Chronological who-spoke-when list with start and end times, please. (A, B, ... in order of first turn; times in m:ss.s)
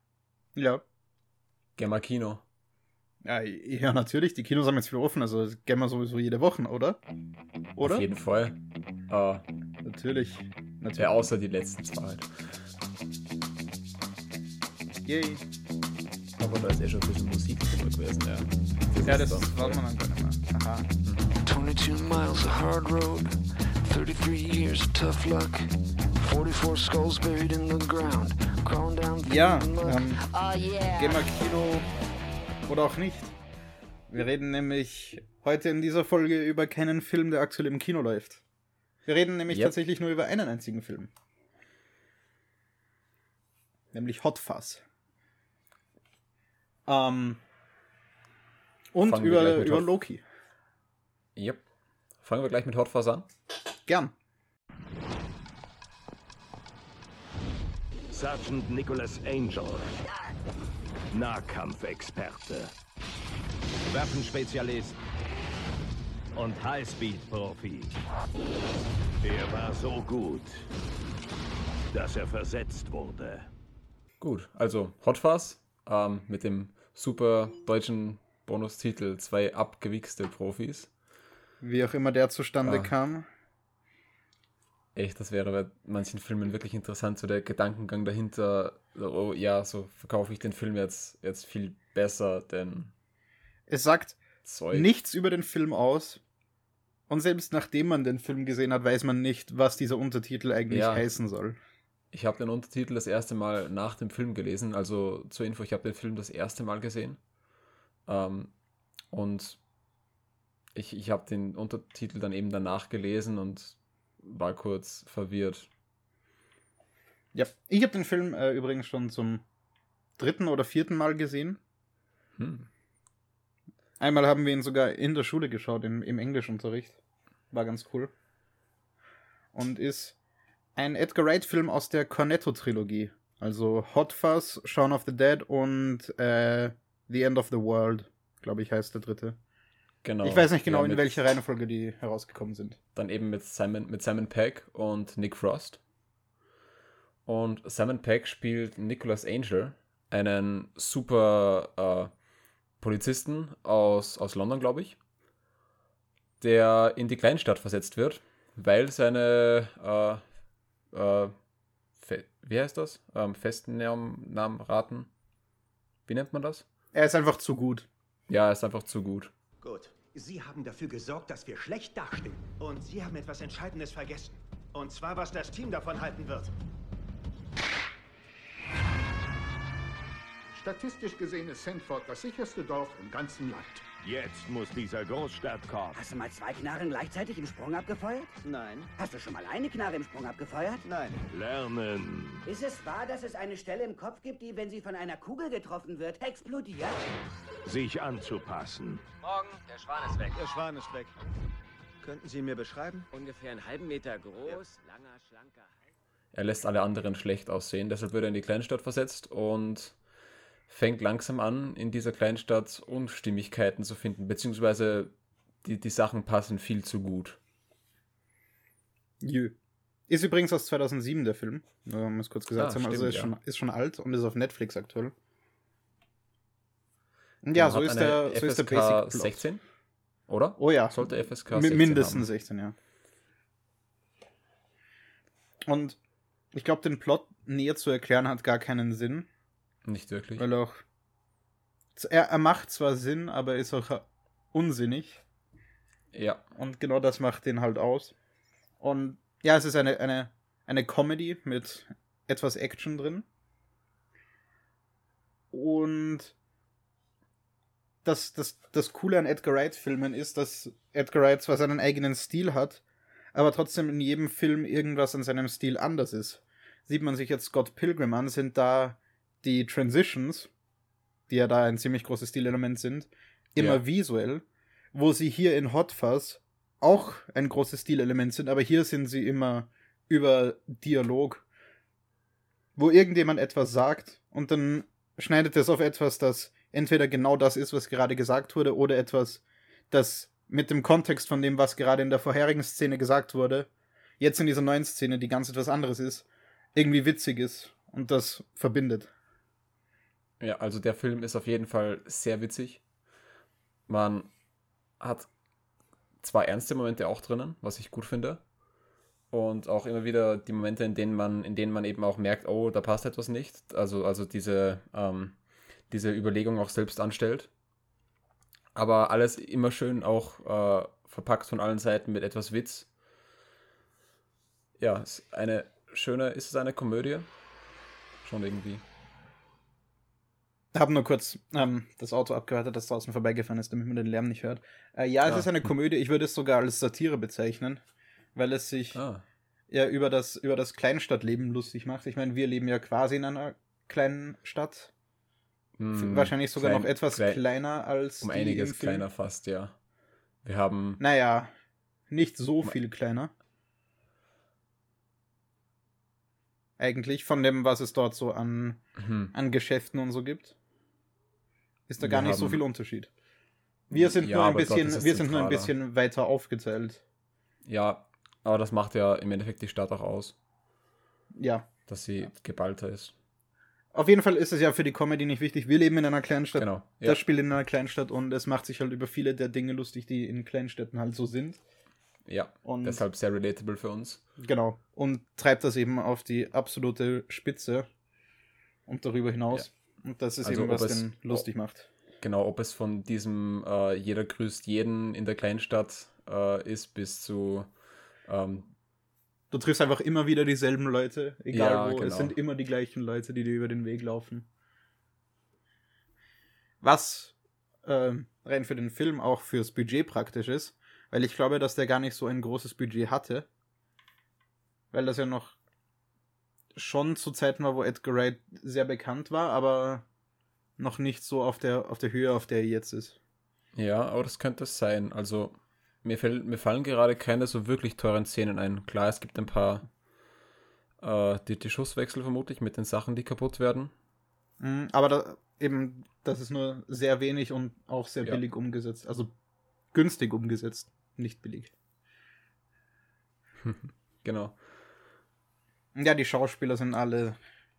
0:00.6-0:00.8 A
0:01.8-0:02.4 B
0:03.2-0:07.0 A
0:07.8-0:08.0 A
0:07.8-0:09.4 B
0:09.8-0:11.3 A
0:11.0-0:12.3 B
0:15.0-0:15.4 A
0:16.4-0:19.8 B
0:19.0-0:20.9 A
0:21.0-0:21.3 B
0:21.4-0:31.3 C
0:29.2-0:30.2 A
0:30.9-0:31.9 A
0:32.7-0:33.4 A
0:34.1-0:38.4 A
0:39.0-0:41.1 A
0:39.5-0:39.8 B
0:43.9-0:44.8 A
0:46.9-0:47.4 A
0:48.9-0:50.2 A
0:49.0-0:49.9 B
0:51.4-0:51.6 B
0:52.2-0:53.3 B
0:53.9-0:54.1 A
0:58.1-0:59.9 D
1:01.1-1:02.7 D
1:03.9-1:05.0 D
1:06.3-1:07.9 D
1:09.2-1:10.7 D
1:11.9-1:13.5 D
1:14.2-1:20.9 B
1:21.6-1:23.3 A
1:22.6-1:22.9 B
1:25.0-1:32.9 B
1:33.7-1:34.2 A
1:34.4-1:34.9 B
1:34.7-1:36.2 A
1:37.1-1:41.6 A
1:40.7-1:41.1 B
1:42.1-1:47.2 B
1:48.1-1:48.5 B
1:49.1-1:49.6 B
1:50.8-1:55.7 B
1:57.3-1:59.4 A
2:00.2-2:01.6 A
2:02.4-2:02.7 B
2:04.0-2:07.0 A
2:07.5-2:08.1 A
2:09.5-2:10.2 A
2:10.8-2:19.4 A
2:20.0-2:21.2 B
2:20.2-2:22.8 A
2:22.9-2:25.8 B
2:27.2-2:32.1 B
2:32.8-2:35.0 B
2:36.4-2:40.2 B
2:40.9-2:41.3 B
2:42.0-2:45.1 B
2:46.1-2:46.7 B
2:46.9-2:47.9 A
2:48.3-2:49.3 B
2:49.6-2:56.5 E
3:00.5-3:03.8 F
3:04.0-3:06.0 D
3:05.9-3:08.3 G
3:08.4-3:08.9 E
3:09.0-3:10.8 G
3:10.8-3:11.2 E
3:11.3-3:12.4 D
3:12.5-3:17.0 G
3:17.7-3:19.0 D
3:19.2-3:20.4 H
3:20.3-3:21.1 E
3:22.0-3:23.1 E
3:23.1-3:25.9 H
3:26.3-3:30.0 B
3:30.7-3:35.1 B
3:35.6-3:37.4 B
3:39.2-3:39.6 A
3:40.1-3:45.1 A
3:42.6-3:43.3 B
3:47.4-3:49.4 A
3:47.5-3:49.6 B
3:50.3-3:52.3 B
3:50.6-3:52.8 A
3:55.7-3:56.0 A
3:56.5-3:59.3 A
3:59.8-4:00.5 B
4:00.4-4:00.8 A
4:02.0-4:05.2 A
4:06.1-4:06.4 B
4:06.6-4:08.1 A
4:08.8-4:13.2 A
4:15.5-4:16.3 A
4:18.0-4:22.8 A
4:23.3-4:30.5 A
4:31.3-4:41.4 A
4:33.6-4:33.8 B
4:42.8-4:53.7 A
4:54.2-4:59.1 A
5:00.4-5:02.8 B
5:03.9-5:04.3 B
5:05.0-5:05.3 B
5:06.2-5:08.4 B
5:09.3-5:15.3 B
5:15.9-5:17.5 B
5:18.7-5:22.9 B
5:24.8-5:27.3 B
5:28.2-5:28.8 B
5:30.7-5:37.8 A
5:35.2-5:35.5 B
5:38.3-5:39.0 A
5:38.9-5:39.2 B
5:39.7-5:44.9 A
5:45.8-5:47.4 B
5:45.9-5:49.1 A
5:48.2-5:49.8 B
5:50.4-5:51.0 B
5:51.0-5:51.5 A
5:52.1-5:53.3 A
5:56.8-5:58.8 A
5:59.0-5:59.3 B
5:59.3-6:00.5 A
6:01.9-6:03.1 A
6:02.0-6:02.6 B
6:03.9-6:07.0 A
6:03.9-6:05.7 B
6:07.6-6:10.4 B
6:11.3-6:11.7 A
6:11.9-6:13.1 B
6:13.9-6:21.6 A
6:16.6-6:17.2 B
6:22.2-6:24.2 B
6:22.6-6:23.0 A
6:24.4-6:27.9 A
6:28.9-6:31.9 A
6:30.4-6:31.4 B
6:32.2-6:37.7 B
6:38.2-6:38.7 B
6:39.5-6:44.5 A
6:41.5-6:42.4 B
6:46.8-6:53.5 A
6:54.9-6:55.6 A
6:56.7-7:00.0 A
7:00.8-7:03.2 A
7:03.7-7:09.9 B
7:11.0-7:13.9 B
7:14.6-7:19.3 A
7:19.9-7:21.7 A
7:23.6-7:24.6 B
7:25.9-7:27.4 A